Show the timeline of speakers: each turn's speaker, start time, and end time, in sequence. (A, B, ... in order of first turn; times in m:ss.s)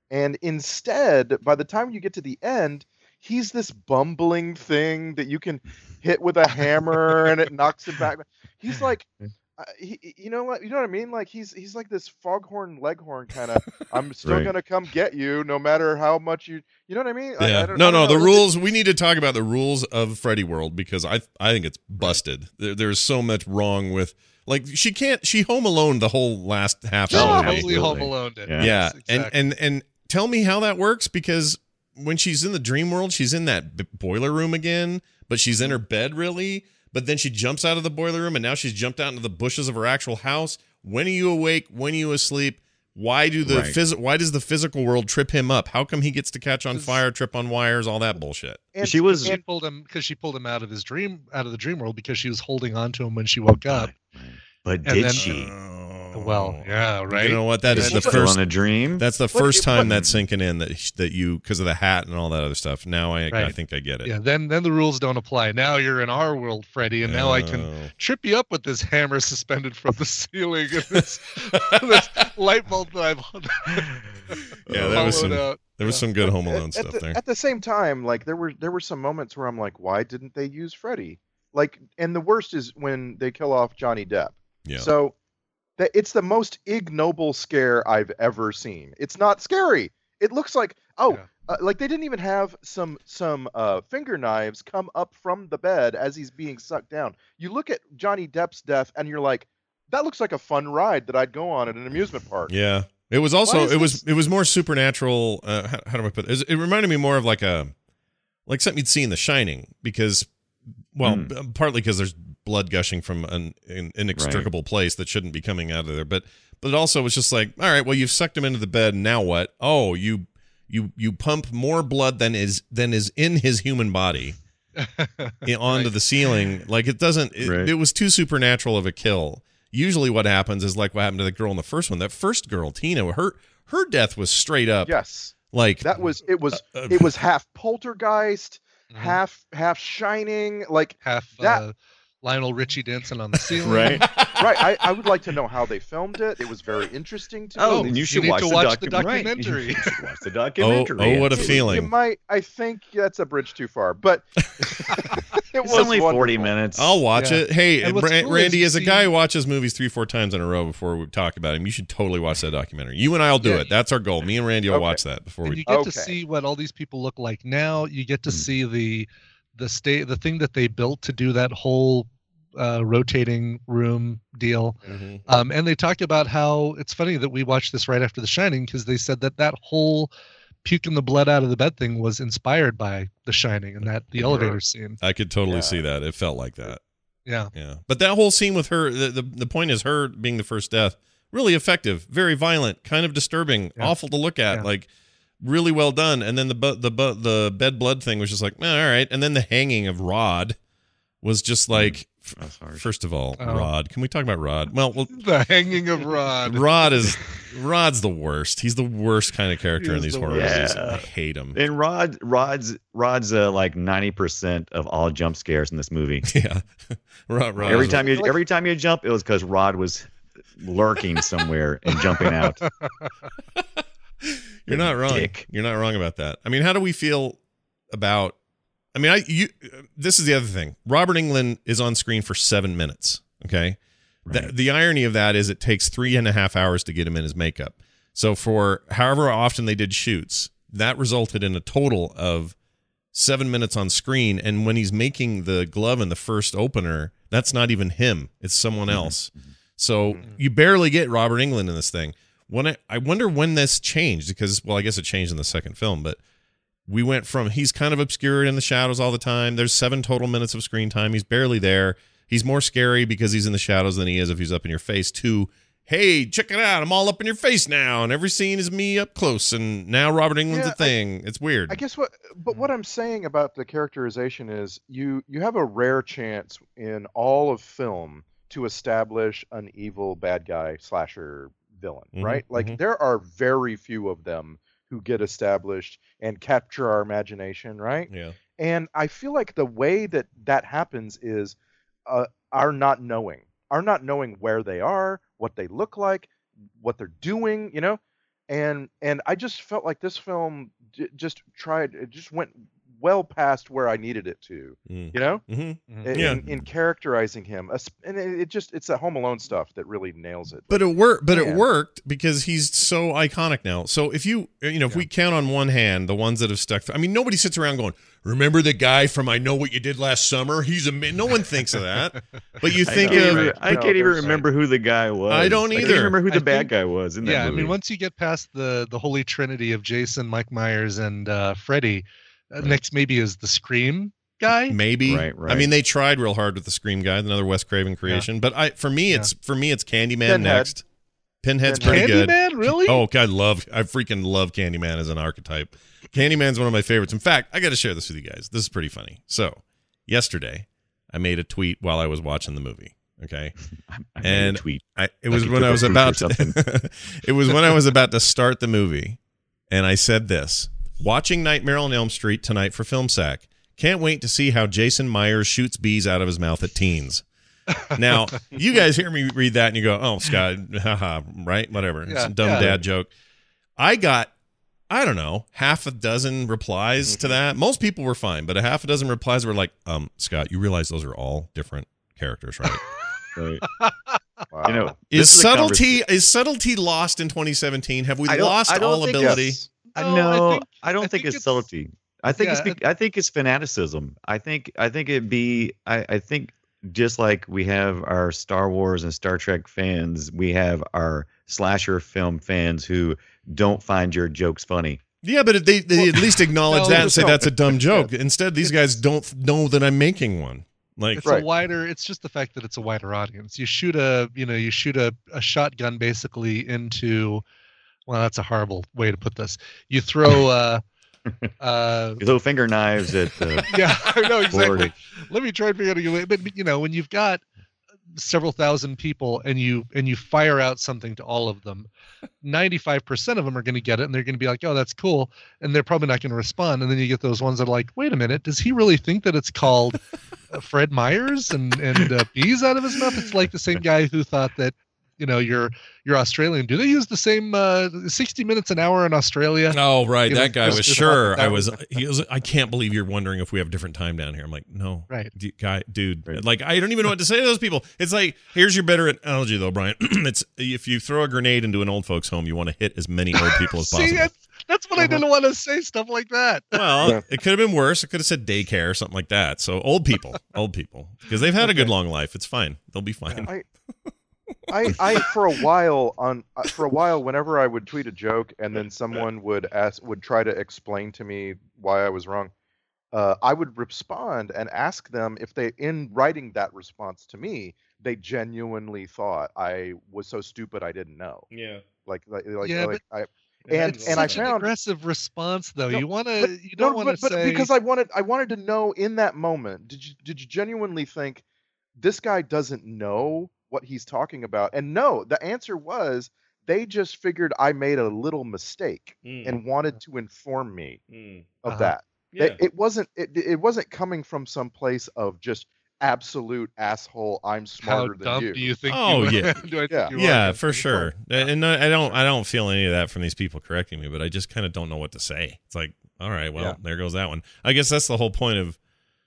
0:00.1-0:09.1 A
0:09.6-0:18.5 A
0:14.2-0:14.5 B
0:17.4-0:27.8 C
0:27.1-0:28.7 B
0:27.1-0:29.3 D
0:28.6-0:48.6 C
0:43.4-0:43.8 B
0:46.7-0:47.0 D
0:48.7-0:49.4 A
0:48.8-0:49.4 B
0:49.2-0:53.9 D
0:53.5-0:55.5 B
0:54.8-0:55.3 D
0:55.2-0:58.4 C
0:56.1-0:57.4 D
0:57.7-0:59.0 B
0:57.8-0:58.3 A
0:59.0-1:04.1 C
0:59.3-0:59.9 A
0:59.8-1:00.2 B
1:04.0-1:16.0 D
1:07.0-1:07.9 C
1:14.6-1:17.2 C
1:14.7-1:15.4 B
1:16.5-1:25.1 A
1:24.6-1:24.9 C
1:25.8-1:42.5 A
1:42.5-1:47.7 C
1:43.4-1:44.0 A
1:48.5-1:50.3 C
1:50.9-2:04.4 C
1:51.0-1:51.3 B
1:54.1-1:54.5 B
2:04.8-2:05.9 D
2:05.4-2:14.9 C
2:07.4-2:07.7 B
2:14.8-2:21.6 A
2:15.5-2:15.9 C
2:16.5-2:17.1 C
2:18.9-2:19.2 D
2:21.0-2:24.0 D
2:23.6-2:24.1 B
2:23.7-2:24.4 C
2:24.4-2:28.0 A
2:27.5-2:31.9 B
2:27.7-2:29.9 D
2:30.6-2:31.9 C
2:31.4-2:36.6 A
2:35.6-2:37.0 B
2:36.7-2:45.6 C
2:37.1-2:39.1 D
2:43.4-2:43.7 D
2:44.7-2:45.0 A
2:45.4-3:00.1 D
2:45.6-2:46.2 A
2:54.8-2:55.3 C
3:00.6-3:05.0 D
3:04.2-3:04.5 C
3:05.0-3:06.8 C
3:05.5-3:05.8 A
3:07.2-3:07.5 D
3:07.5-3:14.9 C
3:15.4-3:20.6 C
3:21.2-3:25.2 C
3:21.7-3:22.8 B
3:23.4-3:23.7 D
3:25.1-3:26.9 D
3:26.4-3:31.6 C
3:29.8-3:31.0 D
3:30.3-3:36.3 B
3:36.2-3:38.1 C
3:37.6-3:42.6 B
3:37.6-3:38.3 A
3:42.2-3:43.1 D
3:43.6-3:47.4 C
3:44.7-3:45.4 B
3:47.9-3:48.3 C
3:48.9-3:53.8 C
3:54.2-3:54.5 B
3:54.3-4:02.5 C
4:03.1-4:16.2 C
4:08.9-4:09.5 B
4:16.9-4:31.8 C
4:30.5-4:31.0 A
4:31.7-4:51.6 A
4:42.1-4:42.8 C
4:48.1-4:48.4 C
4:52.1-5:05.4 A
5:04.9-5:06.4 C
5:06.0-5:11.6 A
5:06.2-5:06.6 B
5:10.7-5:24.4 C
5:22.8-5:27.8 B
5:23.0-5:24.4 A
5:25.3-5:26.2 C
5:25.8-5:34.8 D
5:34.7-5:40.8 C
5:35.0-5:35.7 B
5:40.2-5:40.7 A
5:41.4-5:53.5 C
5:41.6-5:42.1 A
5:41.8-5:43.0 D
5:53.9-5:56.6 B
5:54.2-5:59.2 C
5:59.7-6:07.2 C
6:07.9-6:13.1 C
6:12.0-6:12.7 D
6:13.8-6:14.3 C
6:14.9-6:22.8 C
6:17.0-6:17.4 A
6:23.3-6:23.6 B
6:23.7-6:24.2 D
6:24.5-6:24.9 A
6:24.6-6:26.0 B
6:25.1-6:29.6 C
6:28.2-6:45.0 B
6:29.2-6:29.5 A
6:29.9-6:31.7 D
6:32.3-6:32.8 D
6:45.2-6:51.3 C
6:46.7-6:47.3 D
6:46.8-6:48.1 A
6:51.1-6:57.4 D
6:58.1-7:00.8 D
7:01.6-7:02.2 D
7:02.2-7:04.9 B
7:03.7-7:07.4 D
7:08.1-7:11.9 D
7:12.4-7:20.0 D
7:20.5-7:32.0 D
7:29.7-7:44.3 C
7:43.4-7:46.9 D
7:46.7-7:53.5 C
7:54.7-8:02.5 A
8:03.1-8:11.5 A
8:11.5-8:11.8 C
8:12.0-8:14.7 A
8:12.6-8:13.0 D
8:13.7-8:14.5 C
8:13.8-8:17.7 D
8:15.9-8:21.4 A
8:22.0-8:31.0 A
8:29.2-8:29.6 C
8:31.1-8:31.4 C
8:31.6-8:38.7 A
8:31.7-8:31.9 D
8:32.3-8:32.6 C
8:37.8-8:41.1 D
8:38.9-8:39.6 C
8:40.1-8:48.8 C